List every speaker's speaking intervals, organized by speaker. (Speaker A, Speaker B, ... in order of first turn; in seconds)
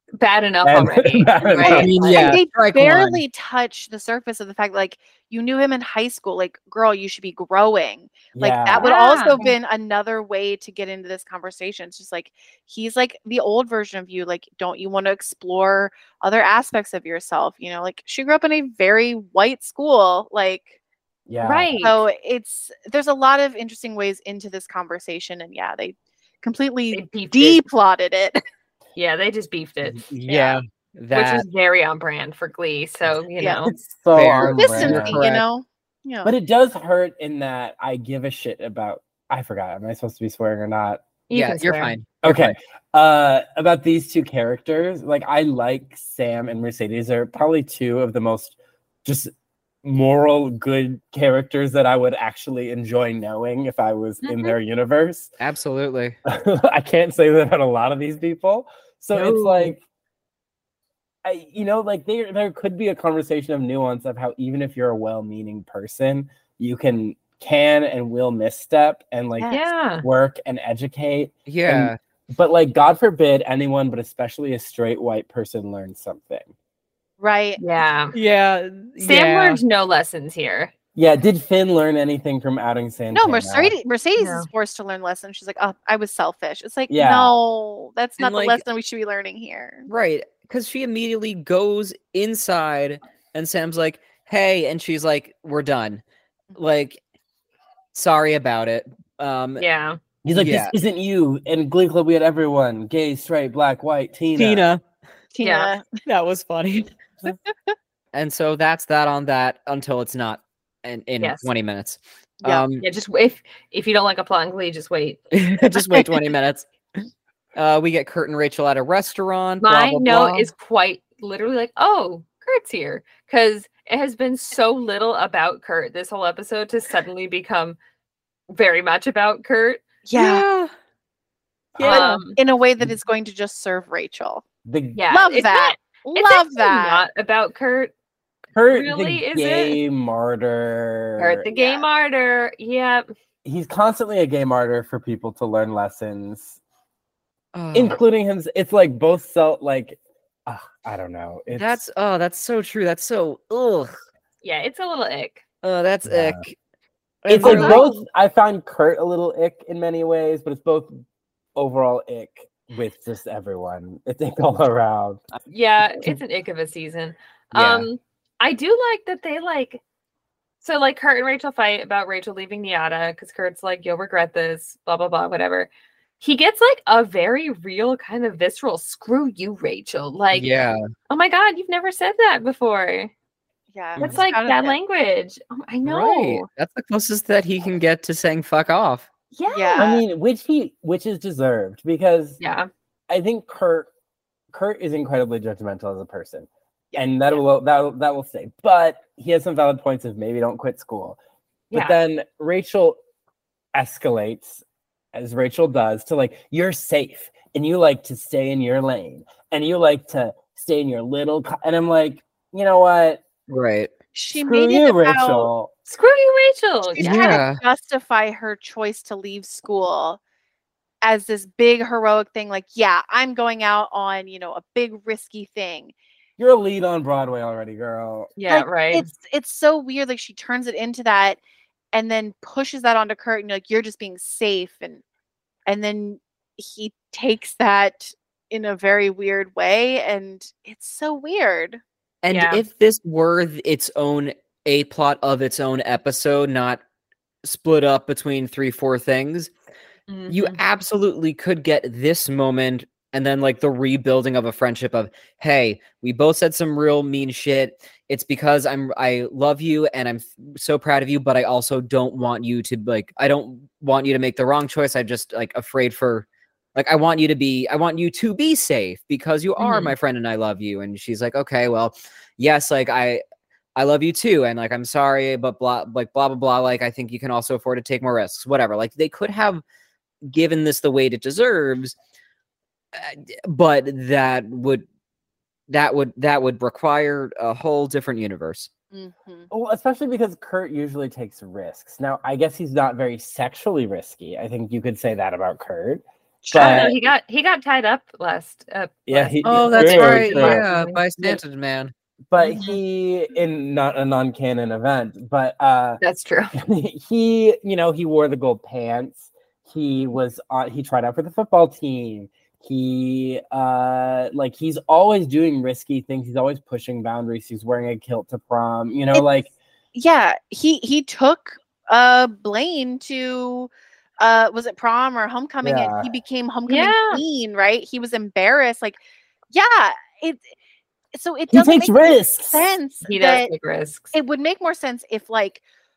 Speaker A: 0.2-2.3, 8.8-9.5, 21.4-22.0, 26.9-27.6, 29.0-30.6, 31.1-33.7, 41.3-41.9, 54.2-54.5, 69.5-70.0, 77.6-78.2, 79.0-80.7, 84.2-84.5, 99.6-100.0, 105.4-105.8, 111.2-111.5, 112.8-115.3, 119.6-127.8, 128.5-129.8, 131.8-132.4, 134.9-137.9, 138.7-139.8, 141.2-143.1, 154.4-155.4, 157.4-158.0, 165.5-169.8, 170.6-175.7, 176.2-180.6, 181.1-183.1, 184.0-186.5, 189.3-189.8, 192.4-192.7, 201.7-202.0, 215.9-217.4, 228.4-229.1, 242.3-242.6, 250.1-250.6, 269.6-269.9, 296.5-301.4, 302.4-302.8, 306.0-306.6, 326.7-327.2, 333.1-334.1
Speaker B: 0.7-2.0, 8.3-8.9, 21.3-21.8, 33.7-35.2, 36.2-41.0, 42.2-49.3, 49.8-55.3, 56.3-59.8, 61.2-76.5, 81.0-83.7, 86.9-87.3, 100.2-104.7, 131.8-132.1, 134.7-135.0, 138.6-141.5, 143.4-146.6, 147.7-151.8, 156.1-156.4, 157.3-160.9, 161.6-165.3, 167.5-167.9, 189.8-192.4, 193.1-193.9, 194.5-201.2, 201.7-203.0, 203.7-204.6, 205.1-213.2, 214.3-215.7, 226.4-228.3, 289.5-297.0, 299.1-300.6, 302.3-306.0, 306.5-319.5, 325.6-326.1, 331.5-332.6
Speaker C: 1.6-20.7, 21.8-28.4, 33.4-33.7, 34.4-36.3, 77.2-77.6, 83.1-89.9, 105.3-105.8, 130.1-130.4, 131.8-134.4, 135.1-137.1, 141.5-141.9, 183.7-184.8, 189.5-190.0, 214.2-215.5, 217.0-220.2, 221.0-225.9, 228.5-231.4, 231.9-235.0, 235.7-241.8, 288.9-289.5, 296.5-296.9, 319.9-329.0, 329.5-330.5, 331.1-333.5, 334.1-335.6
Speaker D: 1.6-3.2, 30.0-31.4, 34.1-35.4, 41.3-42.5, 55.4-56.1, 59.2-59.7, 71.5-72.0, 78.1-79.6, 88.2-88.6, 89.9-96.0, 96.5-97.0, 97.9-99.6, 100.3-100.7, 104.4-104.8, 106.0-107.3, 108.1-112.8, 115.3-116.7, 117.6-120.5, 130.2-130.7, 147.6-148.0, 151.5-153.9, 155.6-156.6, 157.2-157.9, 180.3-180.8, 185.8-189.1, 213.5-213.9, 217.0-217.6, 242.2-246.8, 247.4-249.5, 250.3-273.2, 273.8-279.6, 280.2-282.0, 282.9-284.9, 285.7-288.7, 299.4-301.9